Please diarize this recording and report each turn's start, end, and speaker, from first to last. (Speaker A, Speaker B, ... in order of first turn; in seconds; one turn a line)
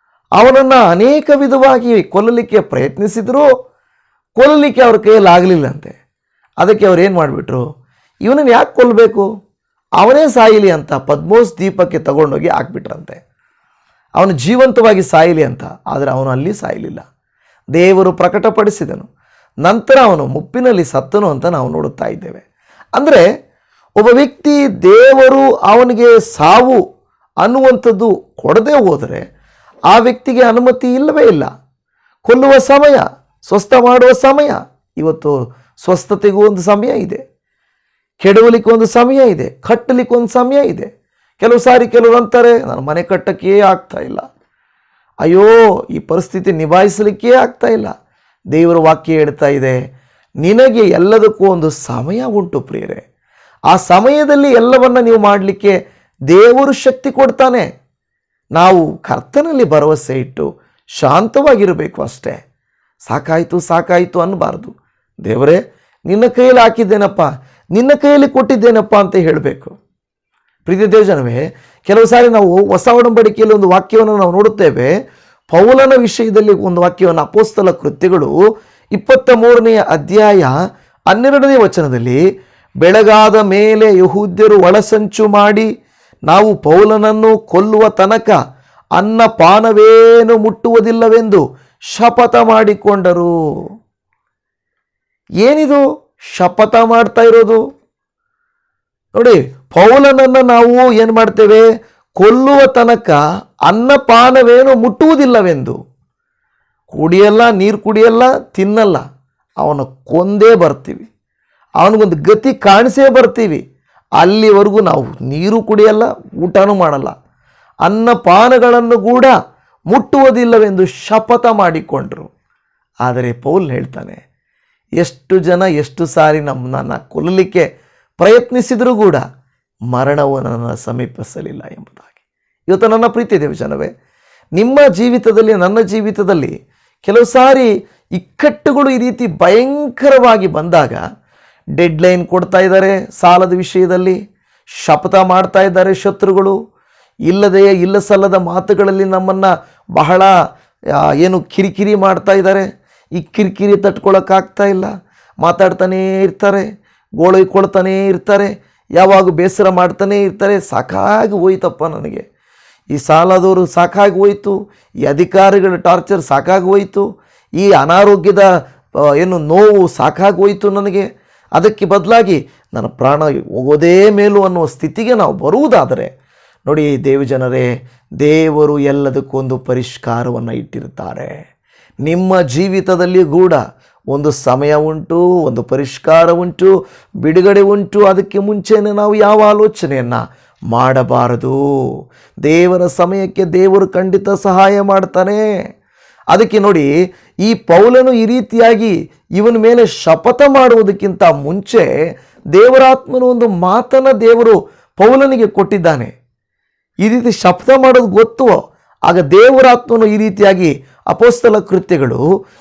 Speaker A: 0.4-3.5
Speaker A: 4.4-6.0
Speaker A: 6.6-7.6
Speaker A: 8.2-9.3
Speaker A: 10.0-13.2
Speaker A: 14.2-17.0
Speaker A: 17.7-19.1
Speaker A: 19.6-22.4
Speaker A: 22.9-23.2
Speaker A: 24.0-26.8
Speaker A: 27.4-29.2
Speaker A: 29.9-31.5
Speaker A: 32.2-37.2
Speaker A: 38.2-40.9
Speaker A: 41.4-44.2
Speaker A: 45.2-47.9
Speaker A: 48.5-49.8
Speaker A: 50.4-53.0
Speaker A: 53.7-55.8
Speaker A: 56.3-57.7
Speaker A: 58.5-60.5
Speaker A: 61.0-62.4
Speaker A: 63.1-69.7
Speaker A: 70.6-74.9
Speaker A: 75.5-78.3
Speaker A: 78.9-80.5
Speaker A: 81.1-82.2
Speaker A: 82.8-85.7
Speaker A: 86.3-88.4
Speaker A: 89.0-93.3
Speaker A: 95.4-95.8
Speaker A: 96.3-97.6
Speaker A: 99.2-101.7
Speaker A: 102.2-105.8
Speaker A: 106.9-109.0
Speaker A: 109.6-111.1
Speaker A: 111.8-113.6
Speaker A: 114.2-117.1
Speaker A: 117.8-119.3
Speaker A: 119.9-122.3
Speaker A: 123.0-124.2
Speaker A: 125.0-127.7
Speaker A: 128.2-129.2
Speaker A: 129.9-132.1
Speaker A: 132.7-133.9
Speaker A: 134.6-136.5
Speaker A: 137.0-141.0
Speaker A: 141.8-144.2
Speaker A: 144.8-146.6
Speaker A: 147.3-150.3
Speaker A: 151.2-154.9
Speaker A: 155.4-156.7
Speaker A: 157.2-162.3
Speaker A: 162.9-168.5
Speaker A: 169.2-176.1
Speaker A: 176.7-177.7
Speaker A: 178.2-181.3
Speaker A: 182.1-183.6
Speaker A: 184.1-186.7
Speaker A: 187.2-190.2
Speaker A: 190.7-191.6
Speaker A: 192.4-195.4
Speaker A: 196.3-196.9
Speaker A: 197.4-201.9
Speaker A: 202.6-206.1
Speaker A: 207.0-212.2